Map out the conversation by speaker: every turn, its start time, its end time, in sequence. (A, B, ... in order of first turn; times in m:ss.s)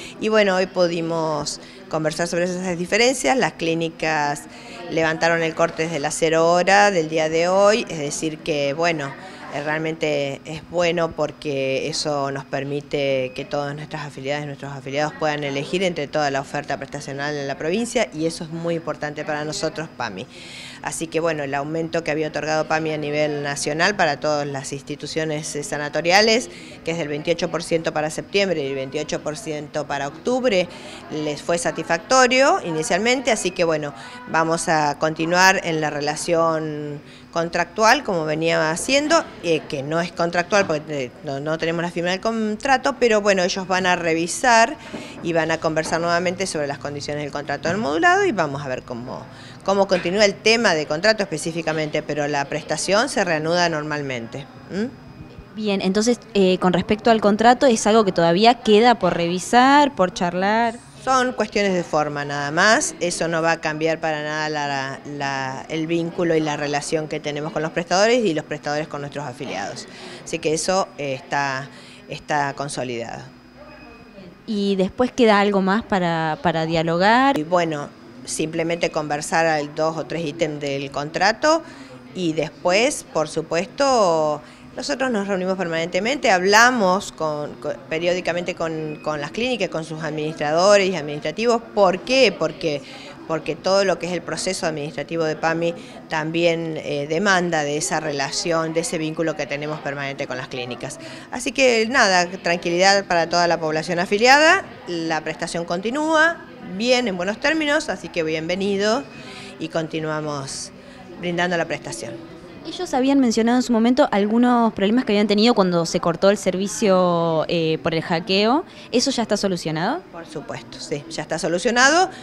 0:00.2-0:20.3 A
0:20.8-0:54.9 A
0:55.5-1:00.8 B
1:01.0-1:13.3 A
1:14.5-1:17.4 B
1:17.4-1:21.6 A
1:22.2-1:49.1 A
1:49.6-1:52.2 A
1:52.6-2:00.0 B
2:00.1-2:02.1 A